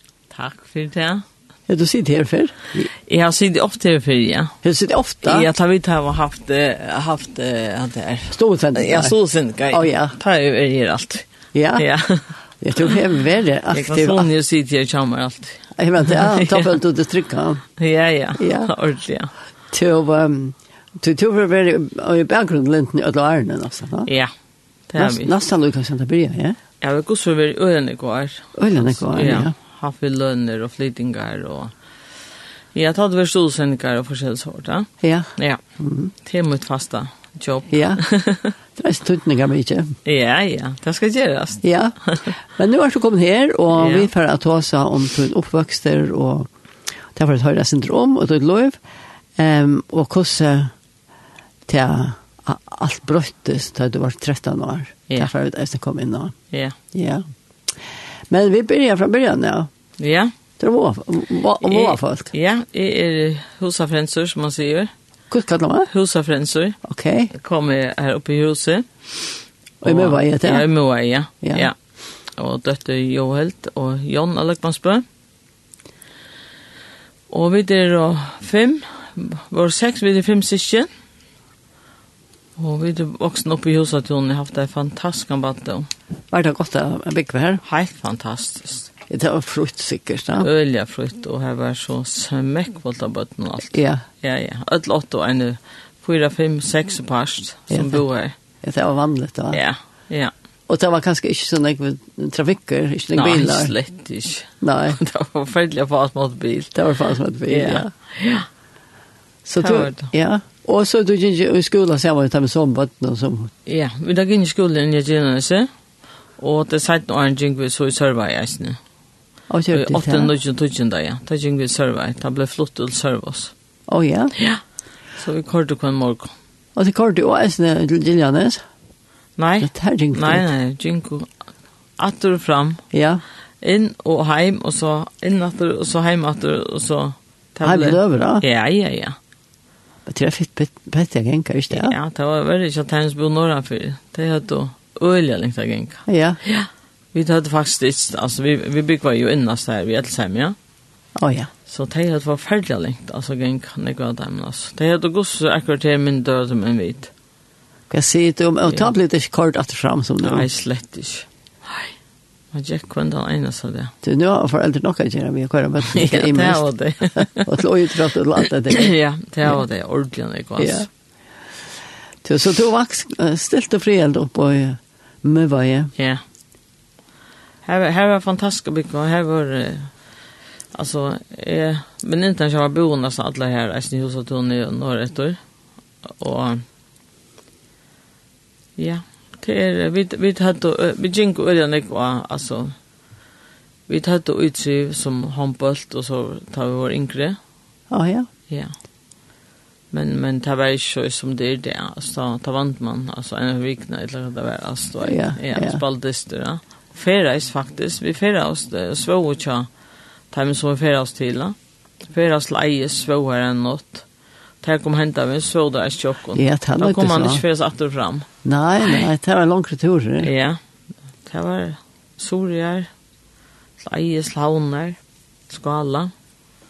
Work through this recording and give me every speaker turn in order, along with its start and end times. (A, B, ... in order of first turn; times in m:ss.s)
0:00.3-0:01.2 A
0:01.7-0:02.9 B
0:03.0-0:04.5 A
0:04.6-0:05.5 B
0:05.2-0:11.3 A
0:08.3-0:09.2 B
0:09.7-0:10.1 B
0:11.5-0:11.8 B
0:11.8-0:12.3 A
0:12.6-0:14.3 B
0:13.7-0:16.8 A
0:15.8-0:17.6 B
0:17.8-0:19.3 A
0:18.4-0:18.7 B
0:19.7-0:24.1 B
0:24.1-0:24.3 A
0:24.9-0:25.3 A
0:25.0-0:26.6 B
0:26.8-0:31.7 A
0:28.6-0:29.5 B
0:32.7-0:35.6 A
0:35.0-0:36.1 B
0:36.2-0:38.5 A
0:37.7-0:38.0 B
0:38.8-0:40.0 B
0:40.0-0:42.3 A
0:41.6-0:46.5 B
0:43.7-0:44.1 A
0:47.1-0:48.8 B
0:49.4-0:50.7 B
0:51.7-0:56.3 B
0:56.5-0:56.8 A
0:56.9-0:57.2 B
0:58.3-0:59.7 B
1:00.0-1:00.3 A
1:00.6-1:02.3 B
1:01.6-1:04.9 A
1:05.3-1:05.9 B
1:05.9-1:06.8 A
1:06.8-1:07.3 B
1:07.3-1:09.2 A
1:09.8-1:10.7 B
1:09.8-1:11.7 A
1:11.4-1:11.7 B
1:12.4-1:15.0 A
1:17.3-1:20.9 A
1:22.6-1:25.9 A
1:26.3-1:27.6 B
1:27.6-1:28.9 A
1:29.1-1:30.5 B
1:30.4-1:38.3 A
1:33.7-1:34.0 B
1:37.7-1:38.0 B
1:38.6-1:39.6 B
1:39.5-1:40.3 A
1:40.7-1:43.7 B
1:43.1-1:46.8 A
1:44.6-1:45.0 B
1:46.7-1:47.9 B
1:47.5-1:48.5 A
1:49.4-1:53.5 B
1:49.6-1:50.1 A
1:53.6-1:55.7 A
1:56.4-1:58.8 A
1:59.5-2:00.3 B
1:59.7-2:03.5 A
2:03.9-2:04.3 B
2:04.4-2:04.6 A
2:05.2-2:06.3 A
2:06.8-2:08.6 B
2:09.4-2:11.3 A
2:09.6-2:10.4 B
2:12.0-2:12.8 A
2:12.9-2:13.2 B
2:13.6-2:19.2 A
2:17.6-2:18.4 B
2:20.0-2:21.9 B
2:21.7-2:30.6 A
2:26.1-2:26.4 B
2:31.2-2:31.5 B
2:31.6-2:37.1 A
2:37.9-2:40.5 B
2:40.2-2:41.9 A
2:42.5-2:43.9 A
2:44.0-2:46.6 B
2:45.9-2:47.5 A
2:47.2-2:48.9 B
2:48.7-2:50.9 A
2:50.6-2:50.9 B
2:52.2-2:55.9 B
2:56.0-2:56.2 A
2:57.6-2:59.9 A
3:00.7-3:05.4 A
3:06.0-3:06.6 A
3:08.8-3:12.7 A
3:13.9-3:17.4 A
3:17.9-3:18.3 B
3:19.9-3:29.7 A
3:25.0-3:25.8 B
3:30.3-3:34.0 A
3:34.6-3:38.3 A
3:36.3-3:37.4 B
3:38.4-3:40.3 B
3:40.2-3:40.6 A
3:41.2-3:42.9 A
3:43.8-3:45.0 A
3:45.5-3:46.1 A